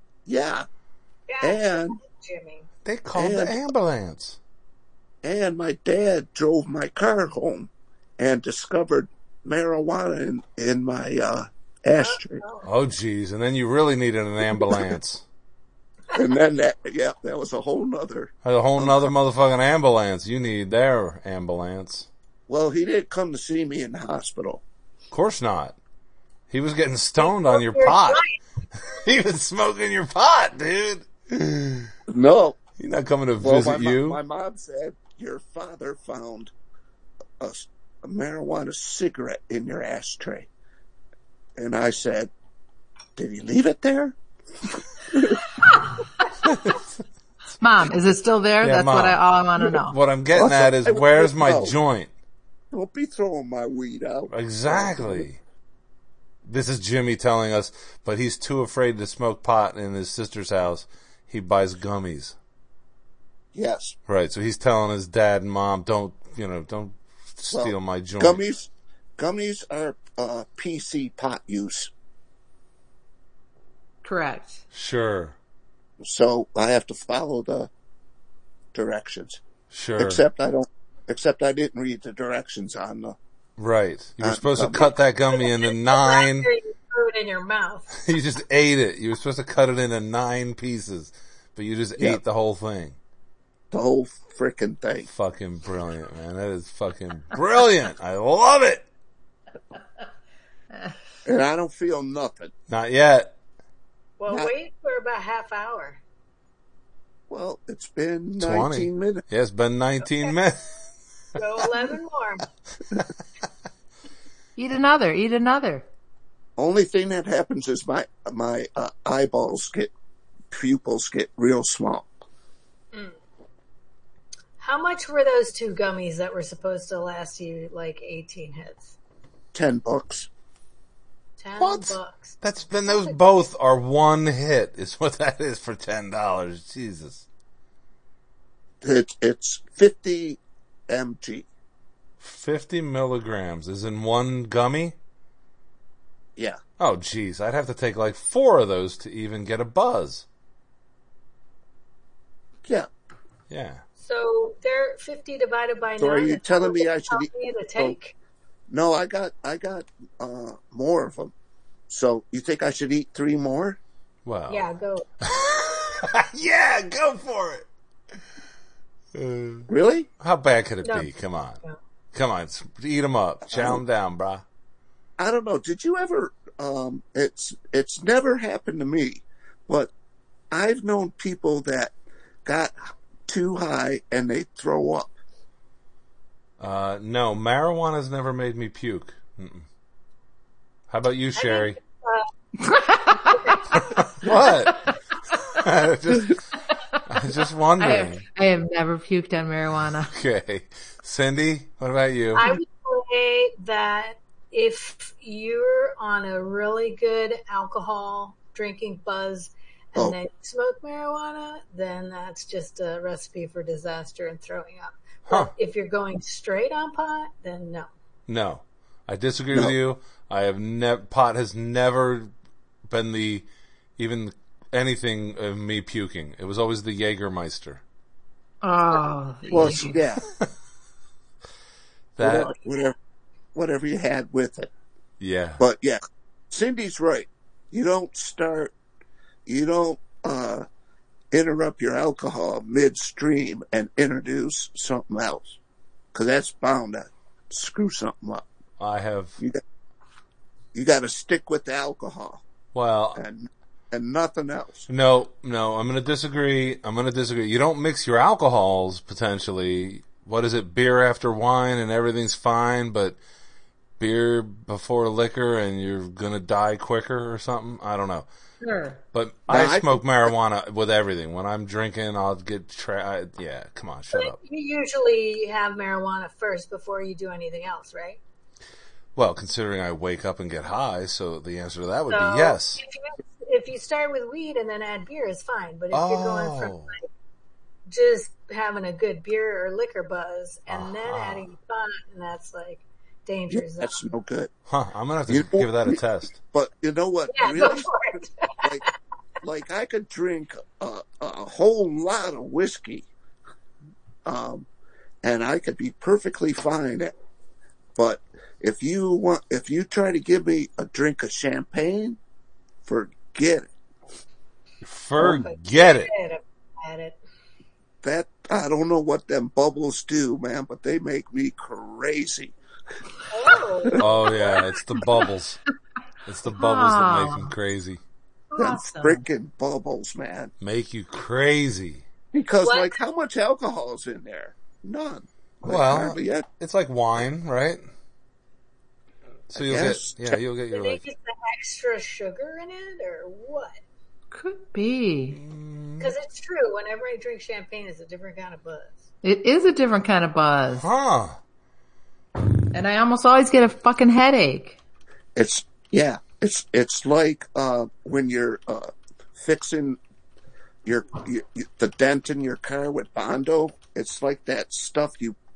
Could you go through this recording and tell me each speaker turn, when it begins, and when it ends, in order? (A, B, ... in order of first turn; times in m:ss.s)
0:00.2-0:00.7 A
0:01.3-0:02.7 B
0:01.4-0:02.0 A
0:02.8-0:04.4 C
0:03.1-0:03.6 A
0:05.2-0:12.4 A
0:12.0-0:12.7 B
0:12.6-0:15.2 C
0:16.1-0:19.1 A
0:18.4-0:22.1 C
0:22.5-0:24.6 A
0:25.1-0:25.7 C
0:26.5-0:28.2 C
0:27.2-0:28.3 B
0:28.8-0:31.9 C
0:32.1-0:32.6 A
0:32.8-0:34.2 C
0:33.4-0:36.5 A
0:37.4-0:40.5 A
0:41.6-0:42.3 A
0:43.2-0:44.2 A
0:44.7-0:45.5 A
0:46.4-0:46.8 C
0:47.6-0:50.0 D
0:48.6-0:52.1 C
0:50.3-0:51.7 A
0:52.7-0:55.2 A
0:54.3-0:55.4 C
0:56.4-1:02.4 C
1:03.5-1:04.0 A
1:04.1-1:08.4 C
1:07.5-1:11.9 A
1:14.0-1:14.6 D
1:14.7-1:15.4 C
1:16.0-1:17.7 A
1:18.7-1:19.4 A
1:19.7-1:20.2 C
1:20.0-1:23.2 A
1:23.6-1:26.5 C
1:24.2-1:24.9 A
1:25.4-1:27.9 B
1:28.0-1:33.0 C
1:33.7-1:35.1 A
1:35.1-1:38.8 C
1:41.2-1:42.5 A
1:42.7-1:43.3 C
1:44.2-1:46.0 B
1:47.3-1:49.2 A
1:48.4-1:50.7 C
1:51.4-1:52.5 B
1:54.6-1:55.8 D
1:56.6-1:59.9 A
2:00.5-2:02.1 A
2:04.6-2:08.9 B
2:09.5-2:10.3 A
2:11.4-2:12.3 B
2:11.6-2:17.2 C
2:12.9-2:13.2 B
2:18.8-2:21.4 A
2:22.2-2:24.9 C
2:26.8-2:30.2 C
2:33.5-2:33.8 C
2:34.0-2:38.1 B
2:36.0-2:38.0 A
2:38.7-2:41.3 A
2:41.9-2:43.8 A
2:44.2-2:44.7 C
2:44.5-2:46.0 B
2:45.3-2:47.6 C
2:49.1-2:49.7 C
2:49.7-2:50.1 A
2:50.2-2:51.6 C
2:52.1-2:54.4 C
2:53.5-2:53.8 A
2:55.2-2:59.9 A
3:00.5-3:01.9 A
3:02.4-3:05.1 A
3:06.6-3:09.6 C
3:10.9-3:11.8 C
3:11.4-3:12.2 B
3:12.6-3:13.5 D
3:13.3-3:14.2 B
3:14.2-3:14.8 C
3:15.5-3:16.4 C
3:17.0-3:18.2 C
3:17.8-3:20.1 D
3:20.1-3:22.4 C
3:22.3-3:37.9 B
3:38.3-3:42.3 C
3:42.9-3:43.4 C
3:44.0-3:47.8 C
3:48.6-3:50.0 D
3:49.5-3:50.2 A
3:52.2-3:52.5 C
3:52.2-3:53.0 A
3:53.5-3:54.7 A
3:55.2-3:55.6 C
3:55.6-3:58.7 A
3:59.4-4:00.6 A
4:01.3-4:05.6 A
4:06.1-4:08.4 A
4:08.8-4:09.4 C
4:10.7-4:12.4 A
4:12.7-4:13.2 C
4:13.1-4:14.9 A
4:14.9-4:23.2 C
4:24.0-4:28.2 C
4:28.6-4:29.0 D
4:29.1-4:34.4 C
4:29.5-4:30.0 A
4:34.1-4:38.2 B
4:39.2-4:42.8 C
4:42.1-4:47.0 B
4:45.9-4:46.9 C
4:47.9-4:54.0 B
4:50.7-4:51.5 C
4:53.5-4:54.5 A
4:54.7-4:56.4 C
4:55.3-4:58.0 A
4:57.3-4:58.8 B
4:59.4-5:03.1 A
5:04.2-5:04.7 A
5:05.2-5:07.1 A
5:08.0-5:12.2 A
5:12.8-5:13.7 A
5:14.8-5:16.1 C
5:15.2-5:17.2 B
5:18.0-5:22.5 A
5:23.3-5:24.7 B
5:24.0-5:25.6 C
5:26.2-5:28.0 C
5:26.5-5:27.5 D
5:28.5-5:29.2 B
5:28.6-5:30.5 A
5:30.6-5:32.0 C
5:32.3-5:36.4 A
5:32.6-5:33.0 B
5:35.6-5:37.8 C
5:39.5-5:41.0 C
5:39.5-5:40.4 A
5:40.7-5:43.8 B
5:44.3-5:45.4 D
5:45.3-5:46.1 C
5:46.0-5:49.0 B
5:49.2-5:50.8 D
5:50.8-5:51.4 C
5:52.7-5:54.8 D
5:55.4-6:00.0 A
6:00.8-6:05.4 A